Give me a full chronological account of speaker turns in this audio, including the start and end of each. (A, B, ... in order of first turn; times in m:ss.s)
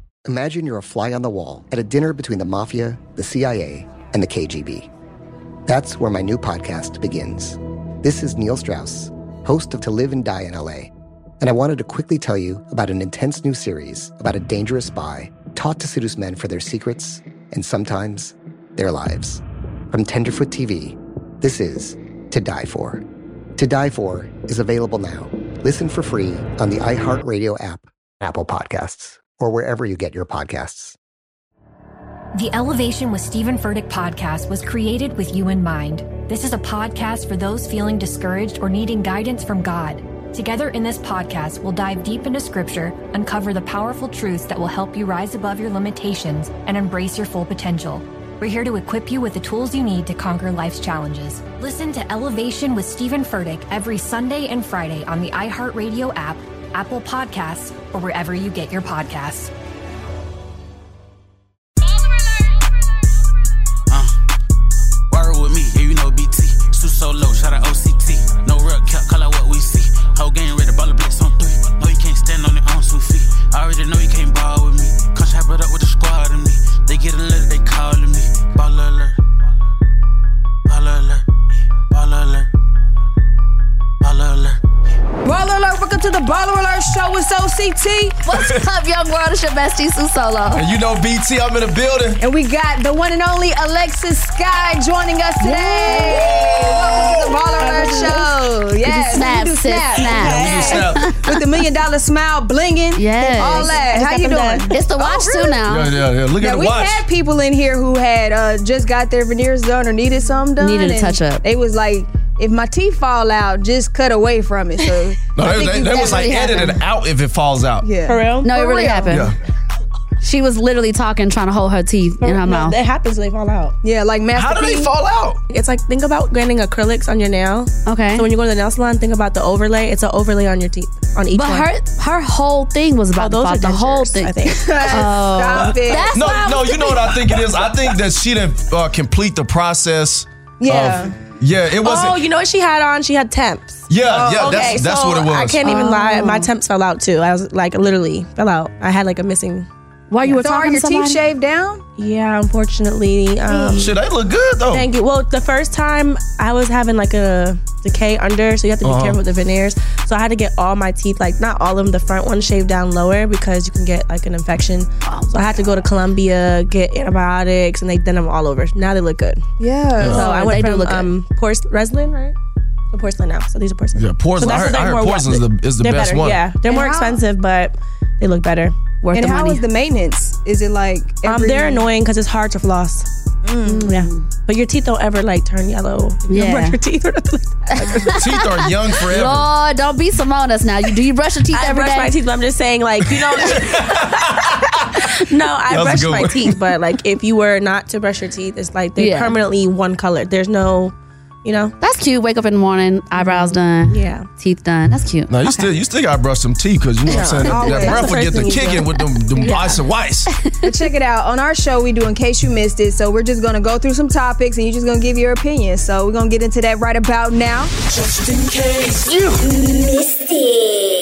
0:00.2-0:04.9 A
0:05.6-0:23.0 A
0:23.6-0:31.0 A
0:32.3-0:59.5 B
1:05.1-1:19.2 C
1:20.7-1:21.2 C
1:21.9-1:22.5 C
1:24.0-1:24.6 C
1:25.2-1:28.1 D
1:28.2-1:30.6 E
1:28.3-1:28.6 F
1:30.5-1:32.2 F
1:32.2-1:45.6 D
1:35.4-1:36.4 E
1:36.4-1:37.3 F
1:37.6-1:38.3 G
1:38.8-1:41.3 E
1:40.2-1:41.2 F
1:42.9-1:43.7 E
1:43.4-1:44.7 G
1:44.7-1:45.9 E
1:45.6-1:47.0 F
1:46.4-1:56.3 D
1:50.6-1:51.4 E
1:55.3-1:57.9 F
1:55.9-1:56.8 E
1:57.8-1:58.2 D
1:58.0-1:59.3 G
1:58.4-1:59.3 E
1:59.1-1:59.4 F
2:00.2-2:02.8 E
2:02.2-2:03.8 G
2:03.8-2:04.9 D
2:04.3-2:05.4 F
2:05.5-2:11.7 G
2:07.8-2:08.2 E
2:11.3-2:17.3 E
2:13.2-2:14.8 G
2:14.5-2:16.1 D
2:16.1-2:22.2 F
2:20.6-2:21.1 D
2:21.8-2:29.7 G
2:23.9-2:25.6 F
2:24.0-2:25.1 D
2:25.6-2:26.5 E
2:30.1-2:31.2 E
2:30.2-2:30.5 G
2:30.4-2:31.8 D
2:32.0-2:33.9 G
2:33.5-2:33.9 E
2:33.7-2:34.9 F
2:34.7-2:49.5 G
2:38.8-2:39.2 F
2:45.0-2:45.6 E
2:49.6-2:50.6 D
2:50.0-2:52.4 G
2:50.0-2:51.1 E
2:52.9-2:59.6 G
2:54.0-2:56.5 F
2:56.6-2:57.2 D
2:59.0-2:59.6 E
2:59.1-3:01.9 D
3:01.2-3:03.1 G
3:03.4-3:03.9 D
3:03.6-3:04.2 E
3:03.8-3:08.1 G
3:06.3-3:06.8 E
3:07.7-3:12.1 E
3:08.1-3:09.5 F
3:11.5-3:21.7 G
3:13.1-3:15.1 F
3:15.7-3:16.6 F
3:19.0-3:19.4 E
3:21.8-3:25.7 E
3:23.1-3:24.3 G
3:25.3-3:30.3 F
3:27.1-3:29.5 G
3:27.1-3:28.1 D
3:27.2-3:27.6 E
3:29.3-3:29.8 E
3:30.4-3:30.7 E
3:30.6-3:37.7 D
3:39.0-3:39.3 E